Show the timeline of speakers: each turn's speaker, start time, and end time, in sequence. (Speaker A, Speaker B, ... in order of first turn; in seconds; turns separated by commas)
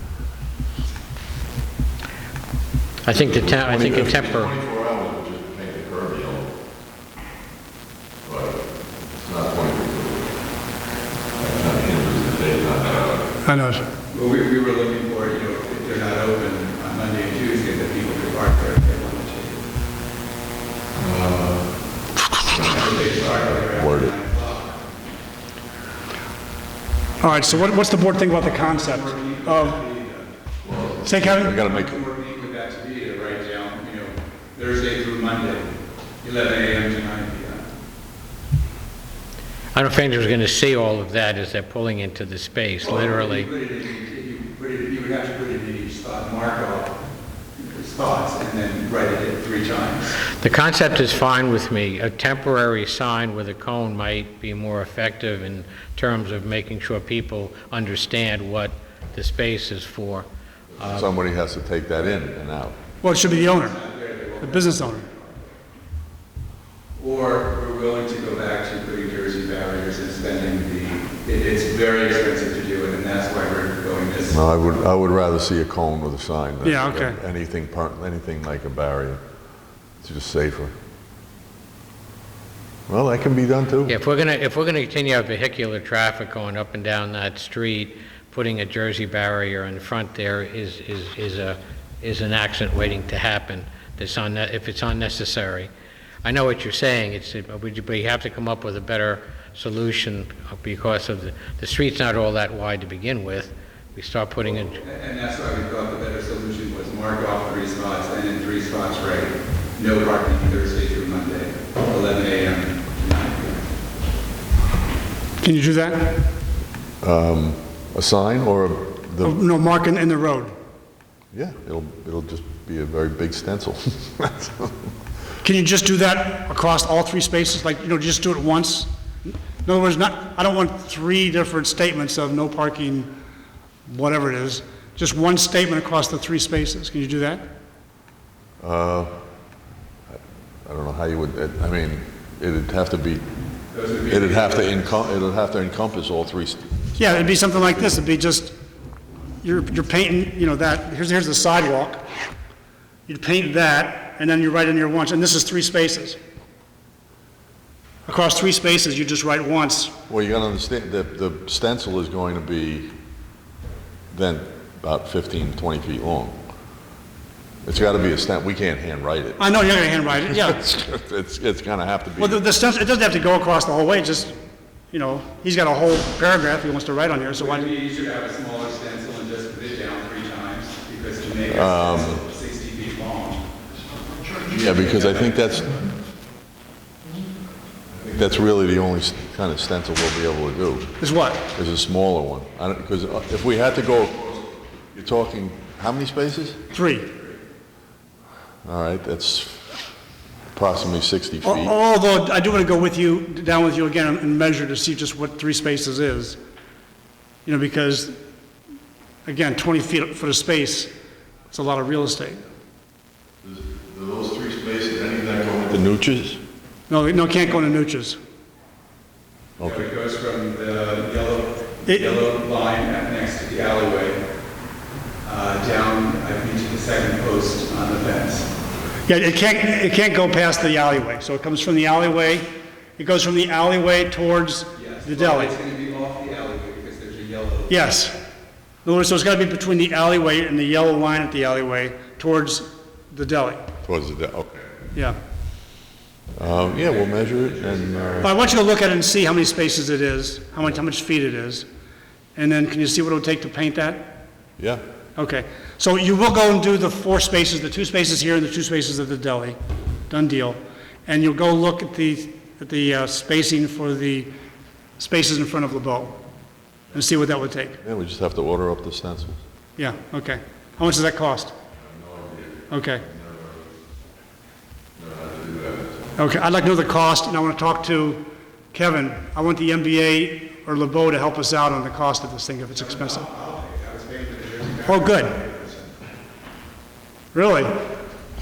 Speaker A: 3.1-4.5, Speaker B: 3.1-6.5, Speaker B: 8.2-10.8, Speaker B: 11.4-13.3, Speaker C: 13.4-13.9, Speaker D: 14.0-19.6, Speaker B: 20.9-24.1, Speaker D: 22.5-24.9, Speaker C: 27.2-29.8, Speaker D: 28.3-30.3, Speaker B: 30.6-32.0, Speaker C: 31.0-31.6, Speaker D: 31.2-37.6, Speaker A: 39.7-43.5, Speaker D: 42.8-47.0, Speaker D: 47.6-50.2, Speaker A: 50.3-60.3, Speaker A: 60.8-61.0, Speaker B: 60.8-62.8, Speaker C: 63.0-63.8, Speaker D: 63.1-65.5, Speaker C: 64.4-65.1, Speaker D: 67.0-74.8, Speaker B: 74.3-79.2, Speaker C: 76.6-77.2, Speaker B: 80.0-80.8, Speaker B: 82.9-84.0, Speaker A: 83.9-95.7, Speaker A: 96.2-104.8, Speaker D: 104.7-113.7, Speaker C: 115.4-116.3, Speaker B: 117.0-119.4, Speaker C: 119.2-120.6, Speaker B: 121.3-124.7, Speaker C: 125.4-133.1, Speaker C: 133.9-137.5, Speaker B: 138.6-139.1, Speaker B: 140.7-143.3, Speaker D: 143.7-145.1, Speaker B: 144.1-147.9, Speaker C: 147.0-148.5, Speaker C: 149.4-152.1, Speaker C: 153.1-156.2, Speaker C: 158.1-159.9, Speaker B: 160.1-162.9, Speaker B: 164.1-166.4, Speaker B: 167.6-169.5, Speaker C: 169.4-170.6, Speaker B: 170.3-172.4, Speaker C: 172.2-174.4, Speaker C: 174.9-177.7, Speaker D: 177.4-183.5, Speaker B: 181.5-182.2, Speaker B: 184.4-185.9, Speaker D: 184.6-185.4, Speaker B: 187.9-191.0, Speaker C: 191.0-191.4, Speaker B: 191.5-196.6, Speaker C: 196.7-197.1, Speaker B: 198.7-199.8, Speaker B: 200.5-201.8, Speaker C: 201.4-206.4, Speaker C: 207.4-208.2, Speaker C: 209.2-210.9, Speaker C: 211.5-212.5, Speaker B: 213.4-216.4, Speaker C: 216.9-218.2, Speaker B: 219.6-219.8, Speaker D: 219.6-224.2, Speaker C: 221.9-222.2, Speaker D: 225.2-228.5, Speaker C: 229.1-235.6, Speaker D: 234.8-237.8, Speaker C: 237.7-238.2, Speaker C: 238.8-243.7, Speaker B: 243.8-244.7, Speaker B: 246.3-248.3, Speaker D: 246.5-248.3, Speaker C: 248.2-251.7, Speaker C: 252.4-254.2, Speaker C: 255.2-259.6, Speaker C: 260.1-264.3, Speaker C: 265.0-266.2, Speaker C: 266.9-267.8, Speaker B: 267.8-269.4, Speaker C: 269.8-271.5, Speaker B: 271.7-273.6, Speaker C: 272.7-273.0, Speaker B: 275.0-276.1, Speaker C: 276.2-283.3, Speaker D: 282.7-286.0, Speaker C: 284.9-285.4, Speaker C: 287.3-287.9